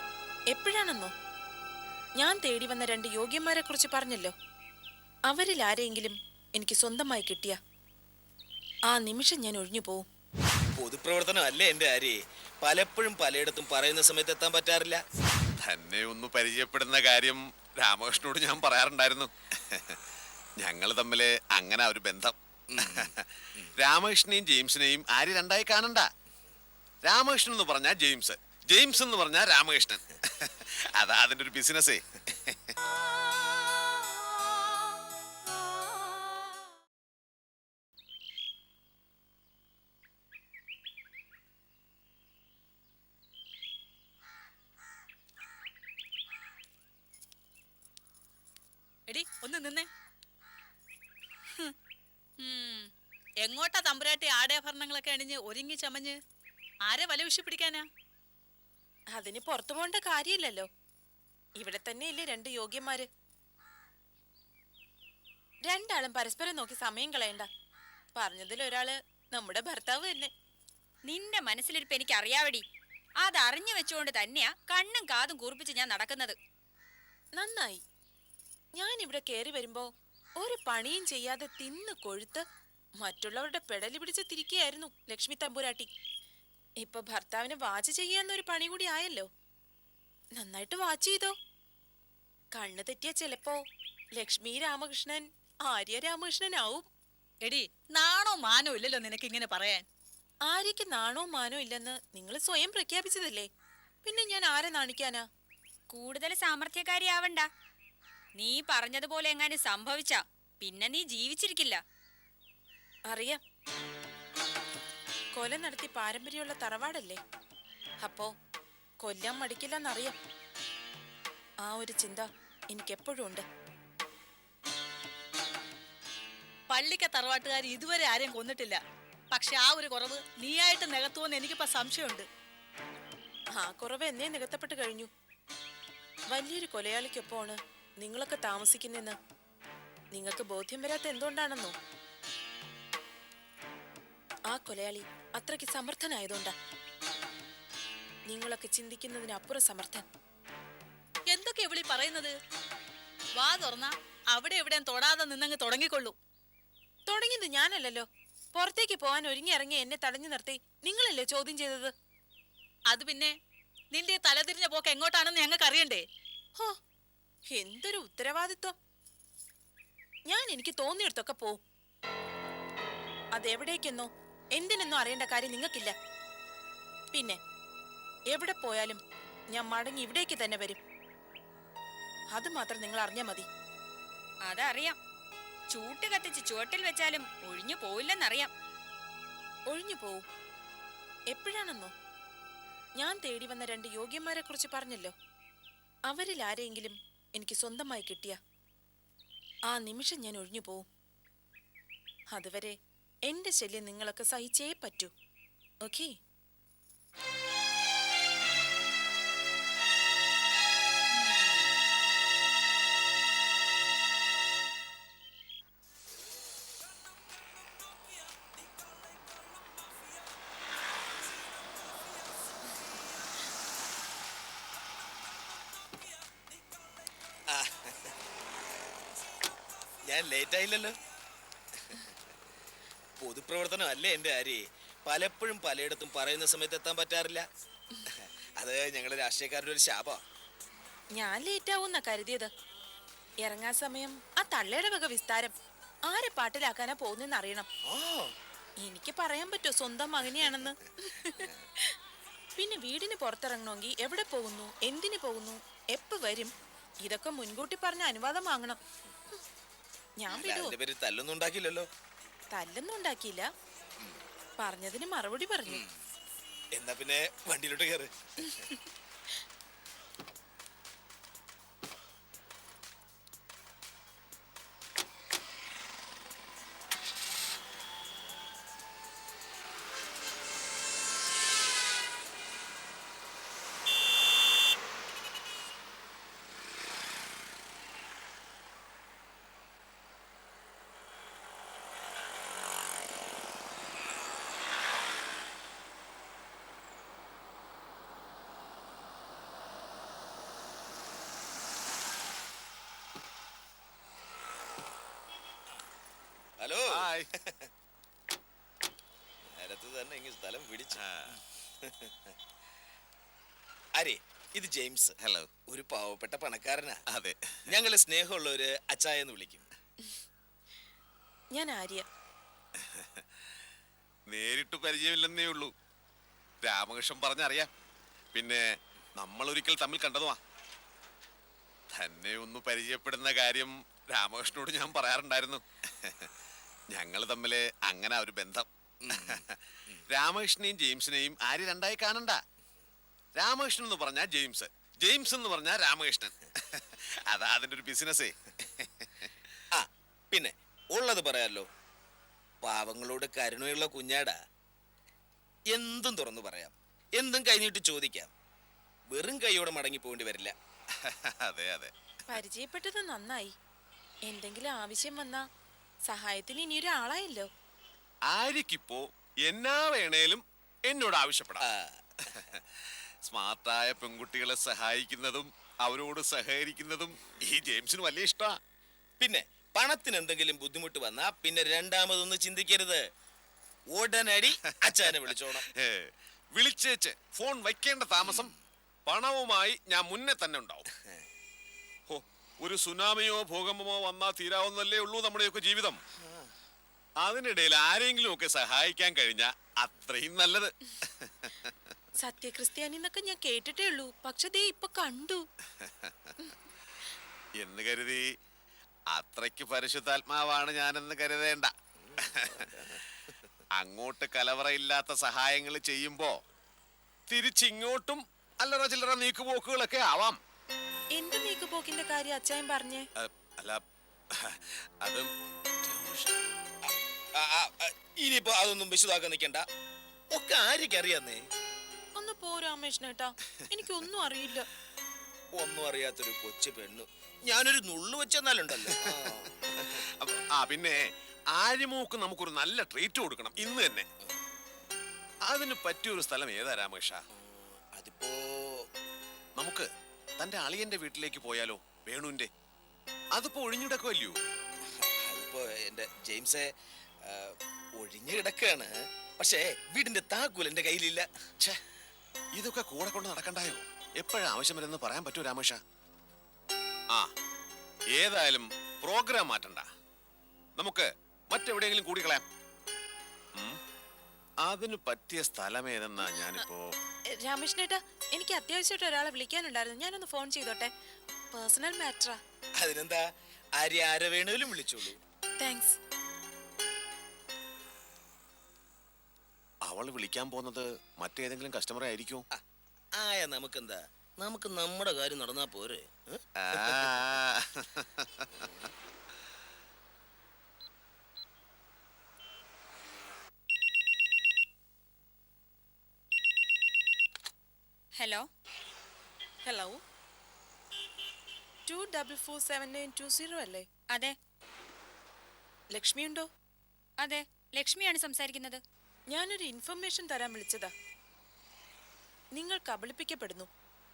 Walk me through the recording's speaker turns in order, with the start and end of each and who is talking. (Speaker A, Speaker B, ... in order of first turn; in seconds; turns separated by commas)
Speaker A: 0.5-1.1, Speaker A: 2.2-4.3, Speaker A: 5.3-7.6, Speaker A: 8.9-10.0, Speaker B: 10.7-15.0, Speaker C: 15.4-20.0, Speaker C: 20.6-22.3, Speaker B: 22.7-23.7, Speaker C: 22.9-26.1, Speaker C: 27.1-32.7, Speaker D: 49.1-49.9, Speaker D: 52.4-52.8, Speaker D: 53.4-56.2, Speaker D: 56.9-57.8, Speaker A: 59.1-60.7, Speaker A: 61.6-63.1, Speaker A: 65.6-67.5, Speaker A: 68.2-70.3, Speaker E: 71.1-72.6, Speaker E: 73.2-76.4, Speaker A: 77.4-77.8, Speaker A: 78.8-79.9, Speaker A: 80.4-82.4, Speaker A: 83.0-85.9, Speaker A: 86.8-89.3, Speaker A: 90.4-91.3, Speaker A: 92.5-93.6, Speaker A: 94.2-96.8, Speaker D: 97.5-99.8, Speaker A: 100.5-103.5, Speaker A: 104.0-105.2, Speaker E: 105.9-107.5, Speaker E: 108.4-111.8, Speaker A: 113.1-113.4, Speaker A: 115.3-117.2, Speaker A: 118.0-118.3, Speaker A: 119.0-120.2, Speaker A: 121.6-123.4, Speaker D: 126.7-128.8, Speaker D: 129.3-132.2, Speaker A: 133.5-135.1, Speaker A: 136.3-139.2, Speaker A: 140.1-141.8, Speaker A: 144.5-146.5, Speaker A: 148.3-150.0, Speaker D: 151.3-152.3, Speaker D: 153.4-156.2, Speaker A: 157.1-161.9, Speaker D: 162.9-163.3, Speaker D: 163.9-166.0, Speaker A: 167.5-168.7, Speaker A: 170.3-171.6, Speaker A: 173.3-175.9, Speaker A: 177.1-177.4, Speaker A: 178.3-179.0, Speaker A: 179.5-180.8, Speaker A: 182.3-183.5, Speaker E: 184.4-185.0, Speaker E: 185.7-188.5, Speaker A: 189.7-190.2, Speaker A: 191.3-191.9, Speaker A: 193.0-195.1, Speaker A: 196.1-198.4, Speaker A: 199.7-200.8, Speaker A: 202.3-205.1, Speaker A: 205.8-206.1, Speaker B: 227.5-228.1, Speaker B: 230.0-231.0, Speaker B: 231.8-232.2, Speaker B: 233.2-237.4, Speaker B: 238.1-240.2, Speaker A: 241.2-242.5, Speaker A: 243.4-245.5, Speaker A: 246.1-247.7, Speaker B: 247.9-248.3, Speaker A: 248.8-251.9, Speaker B: 250.3-250.7, Speaker B: 251.4-251.6, Speaker A: 252.6-258.8, Speaker A: 260.2-260.8, Speaker B: 260.3-261.9, Speaker A: 262.5-263.5, Speaker A: 264.6-265.8, Speaker B: 266.8-268.1, Speaker A: 268.4-268.8, Speaker B: 306.6-307.7, Speaker C: 306.9-307.3, Speaker B: 309.5-312.3, Speaker C: 310.9-311.3, Speaker B: 314.0-315.1, Speaker C: 315.2-315.5, Speaker B: 315.7-317.0, Speaker C: 317.1-317.7, Speaker B: 317.7-319.7, Speaker A: 321.5-322.1, Speaker C: 322.8-323.2, Speaker C: 324.3-325.7, Speaker C: 326.6-327.7, Speaker C: 328.3-328.6, Speaker C: 329.2-330.4, Speaker C: 331.9-336.3, Speaker C: 336.9-342.4, Speaker B: 339.0-340.0, Speaker C: 343.4-349.3, Speaker B: 349.7-351.7, Speaker B: 352.6-354.4, Speaker B: 355.7-358.3, Speaker B: 359.1-360.5, Speaker C: 361.0-361.9, Speaker A: 362.3-363.5, Speaker A: 364.3-365.4, Speaker A: 366.1-367.5, Speaker C: 368.3-371.6, Speaker B: 371.6-372.4, Speaker C: 372.3-378.6, Speaker B: 379.2-383.0, Speaker B: 383.9-385.7, Speaker C: 384.9-388.5, Speaker B: 388.2-388.6, Speaker C: 389.1-390.9, Speaker C: 392.1-396.0, Speaker B: 396.2-396.5, Speaker C: 397.2-401.7, Speaker A: 402.2-405.4, Speaker C: 405.8-406.4, Speaker C: 407.6-408.2, Speaker C: 409.1-411.7, Speaker B: 412.0-413.3, Speaker C: 412.2-412.5, Speaker C: 413.8-416.3, Speaker C: 417.3-420.4, Speaker A: 421.2-423.1, Speaker C: 423.1-423.8, Speaker C: 424.4-425.3, Speaker C: 425.8-426.3, Speaker B: 426.8-429.6, Speaker B: 430.3-431.4, Speaker A: 432.1-434.7, Speaker B: 435.5-440.1, Speaker C: 438.9-439.3, Speaker C: 439.9-444.1, Speaker C: 445.5-447.2, Speaker B: 447.3-448.8, Speaker C: 449.6-449.9, Speaker C: 450.4-452.5, Speaker C: 453.3-454.4, Speaker B: 454.9-456.7, Speaker B: 457.2-461.3, Speaker C: 462.6-465.8, Speaker C: 468.1-469.8, Speaker C: 470.8-472.4, Speaker C: 474.6-476.9, Speaker A: 476.4-476.6, Speaker A: 477.3-482.4, Speaker B: 482.8-483.2, Speaker B: 483.8-485.2, Speaker A: 485.6-485.9, Speaker C: 489.8-492.5, Speaker B: 493.2-497.3, Speaker C: 496.6-498.5, Speaker B: 498.6-498.9, Speaker E: 508.2-508.4, Speaker A: 509.6-510.0, Speaker A: 511.9-513.9, Speaker E: 514.1-514.4, Speaker A: 515.9-516.5, Speaker E: 517.2-518.8, Speaker A: 519.3-520.9, Speaker A: 522.5-523.7